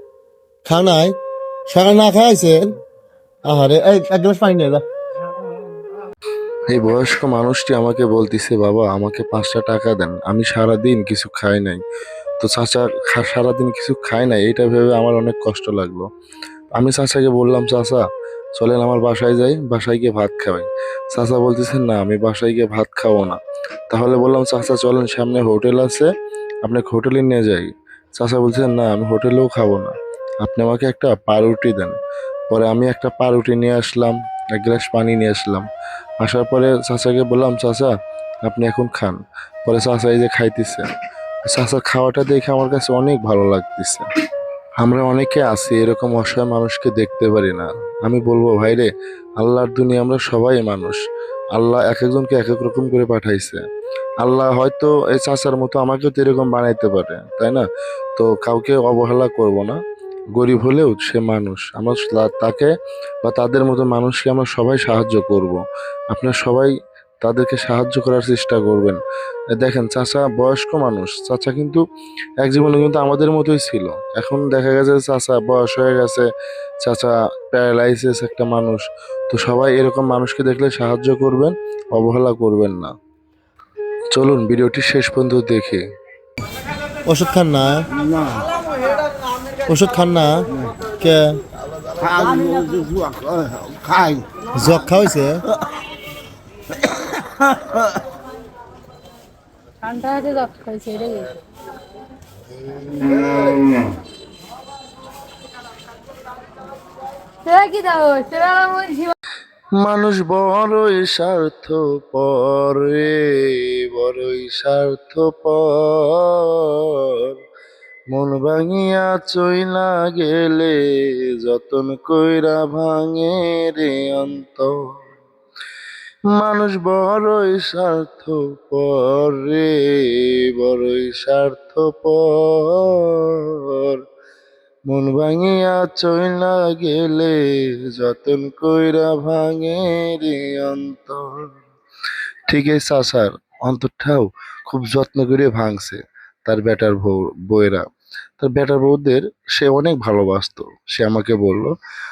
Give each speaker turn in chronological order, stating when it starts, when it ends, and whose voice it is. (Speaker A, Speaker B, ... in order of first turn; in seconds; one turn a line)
Speaker A: 0.7-1.1
Speaker A: 1.7-2.7
Speaker A: 3.5-4.8
Speaker B: 6.7-11.8
Speaker B: 12.4-16.0
Speaker B: 16.8-18.0
Speaker B: 18.6-23.4
Speaker B: 23.9-26.1
Speaker B: 26.6-29.9
Speaker B: 30.4-31.9
Speaker B: 32.5-35.7
Speaker B: 36.2-37.9
Speaker B: 38.5-40.8
Speaker B: 41.5-44.0
Speaker B: 44.8-48.9
Speaker B: 49.4-51.0
Speaker B: 51.5-53.6
Speaker B: 54.2-57.6
Speaker B: 58.2-59.8
Speaker B: 60.4-62.7
Speaker B: 63.2-65.6
Speaker B: 66.1-66.7
Speaker B: 67.2-69.0
Speaker B: 69.6-71.8
Speaker B: 72.4-76.2
Speaker B: 76.8-82.9
Speaker B: 84.1-85.8
Speaker A: 87.1-87.9
Speaker C: 88.0-88.5
Speaker A: 89.7-90.4
Speaker A: 91.0-91.4
Speaker C: 91.9-94.3
Speaker A: 94.5-95.4
Speaker C: 97.5-97.8
Speaker D: 99.8-101.4
Speaker D: 107.5-109.1
Speaker B: 109.8-117.3
Speaker B: 118.1-120.8
Speaker B: 121.4-124.7
Speaker B: 126.3-134.0
Speaker B: 134.9-141.4
Speaker B: 142.5-147.8
Speaker B: 148.4-151.7